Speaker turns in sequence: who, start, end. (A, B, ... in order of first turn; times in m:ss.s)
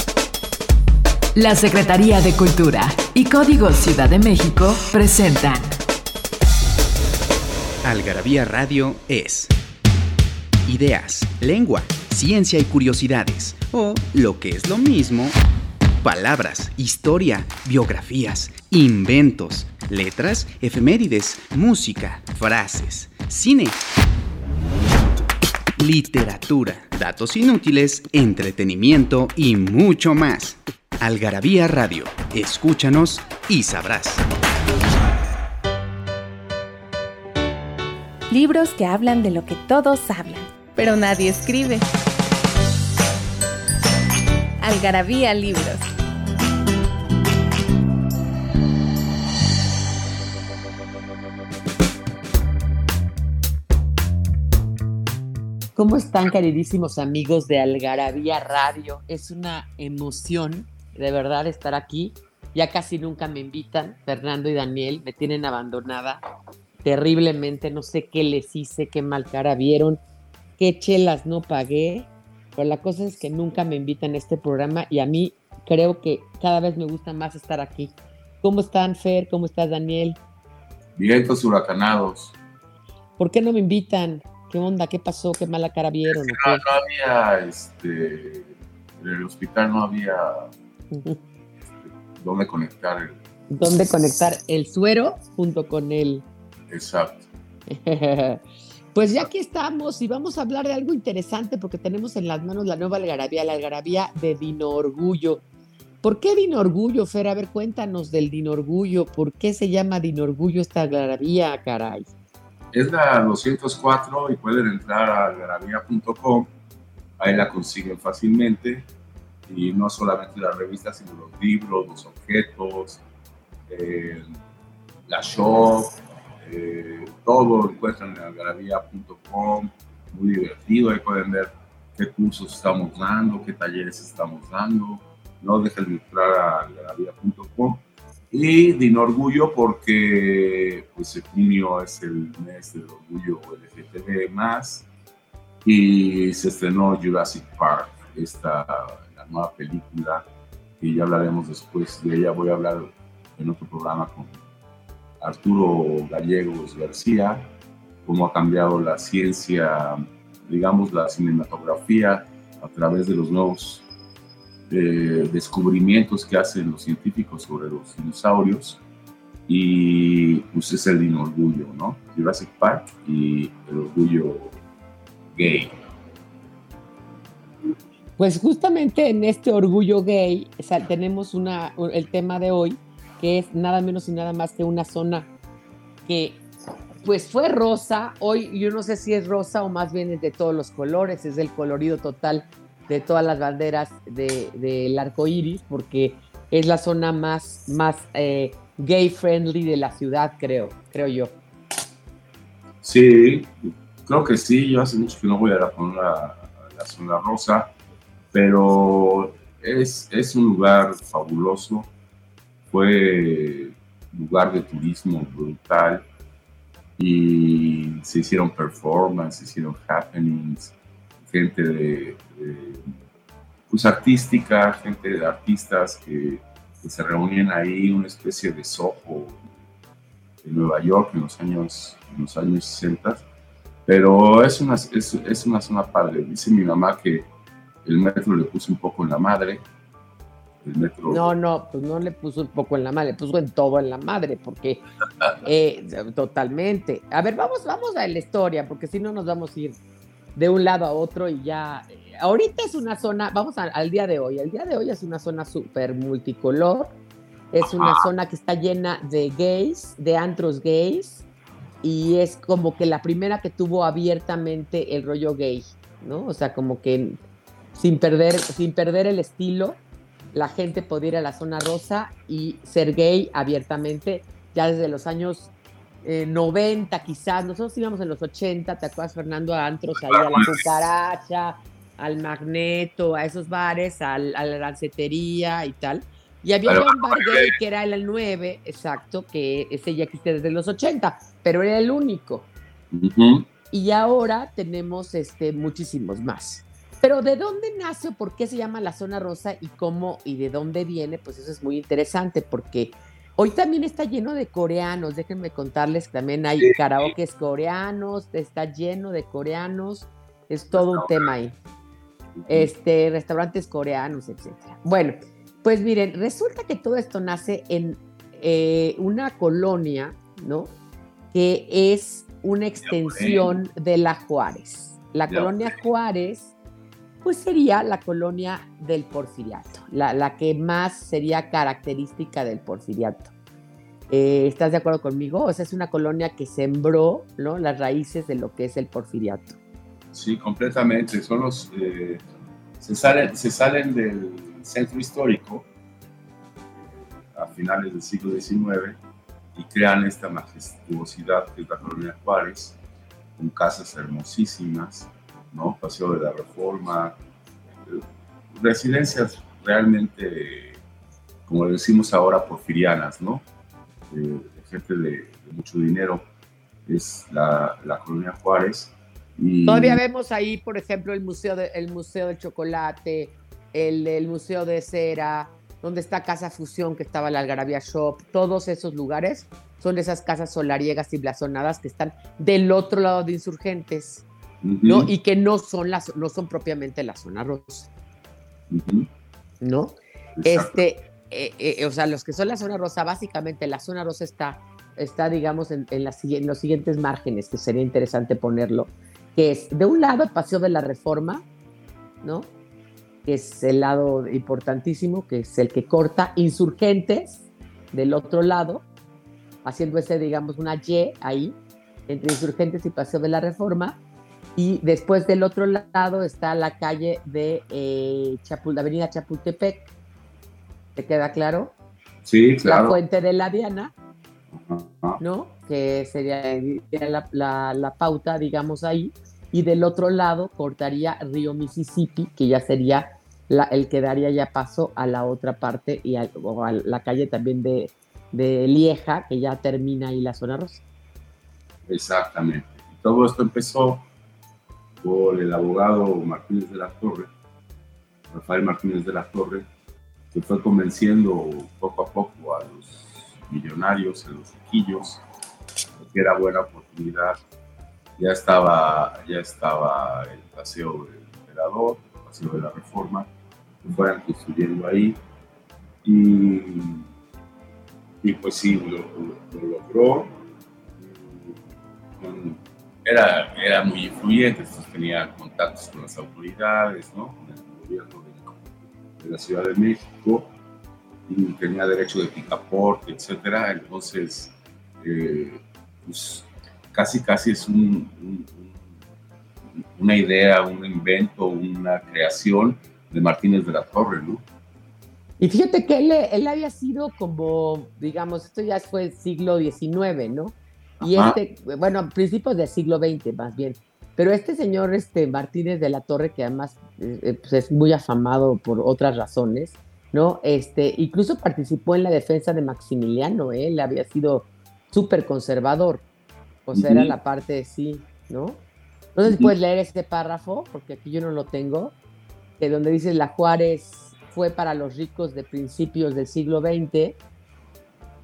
0:01.3-0:05.8 A
0:07.8-0:09.5 B
0:10.6-0:15.4 B
0:16.0-0:23.8 B
0:25.8-0:34.2 B
0:38.3-0:41.9 C
0:44.6-0:45.8 C
0:55.8-1:06.2 D
1:06.8-1:10.0 D
1:10.6-1:20.2 D
1:21.0-1:22.4 E
1:23.2-1:26.6 D
1:26.1-1:30.5 E
1:30.9-1:31.2 D
1:31.8-1:33.2 E
1:33.5-1:36.2 D
1:36.7-1:37.2 E
1:37.7-1:45.4 D
1:46.0-1:52.1 D
1:52.7-1:56.5 E
1:57.2-1:58.9 E
1:59.5-2:03.0 E
2:03.7-2:04.3 E
2:05.0-2:24.9 E
2:25.6-2:30.2 E
2:30.8-2:34.4 E
2:35.2-2:37.5 E
2:38.0-2:43.8 E
2:44.7-2:48.8 E
2:49.5-2:54.6 E
2:55.3-2:55.7 E
2:58.2-3:05.3 D
3:06.0-3:06.4 D
3:07.0-3:21.4 D
3:22.8-3:27.7 E
3:28.3-3:31.9 E
3:32.7-3:36.0 E
3:37.0-3:43.0 E
3:43.7-3:49.4 E
3:50.4-3:53.2 E
3:53.8-3:57.3 E
3:57.8-3:59.6 E
4:00.6-4:01.3 E
4:01.1-4:04.8 D
4:05.4-4:09.8 D
4:10.4-4:16.9 D
4:17.5-4:21.2 D
4:17.6-4:18.0 E
4:21.8-4:27.2 D
4:27.7-4:29.8 D
4:30.3-4:35.5 D
4:36.0-4:52.5 D
4:40.0-4:40.6 E
4:46.6-4:47.5 E
4:52.9-4:53.5 E
4:53.7-5:11.5 D
5:06.6-5:07.1 E
5:10.7-5:11.3 E
5:12.4-5:12.7 E
5:12.5-5:20.7 D
5:21.3-5:26.5 D
5:22.8-5:23.6 E
5:25.3-5:25.7 E
5:27.2-5:33.3 D
5:34.1-5:39.6 D
5:40.1-5:42.2 E
5:42.8-5:45.7 E
5:46.8-5:49.0 E
5:49.5-5:52.8 E
5:53.4-5:57.2 E
5:57.8-6:00.8 E
6:01.4-6:03.4 E
6:04.1-6:06.2 E
6:06.8-6:10.0 E
6:09.6-6:24.2 D
6:24.6-6:25.1 E
6:24.8-6:27.9 D
6:28.7-6:29.1 E
6:29.6-6:41.4 D
6:30.4-6:30.8 E
6:42.2-6:42.5 D
6:43.2-6:48.8 D
6:49.6-6:51.6 D
6:52.1-6:54.0 D
6:54.6-6:59.9 D
7:01.0-7:01.7 D
7:02.2-7:03.0 E
7:02.6-7:03.9 D
7:04.5-7:05.2 E
7:05.2-7:20.8 D
7:21.8-7:24.0 E
7:25.0-7:27.3 E
7:28.3-7:29.6 E
7:30.3-7:35.2 E
7:36.0-7:37.4 E
7:38.2-7:43.3 E
7:43.8-7:45.2 E
7:46.0-7:47.0 E
7:48.2-7:50.4 E
7:51.0-7:51.6 E
7:52.2-7:58.6 E
7:59.2-8:00.5 E
8:01.3-8:08.9 E
8:09.8-8:14.4 E
8:15.4-8:36.0 D
8:21.0-8:21.4 E
8:36.7-8:38.6 D
8:36.7-8:37.1 E
8:39.1-8:41.9 D
8:39.2-8:39.5 E
8:42.6-8:47.2 D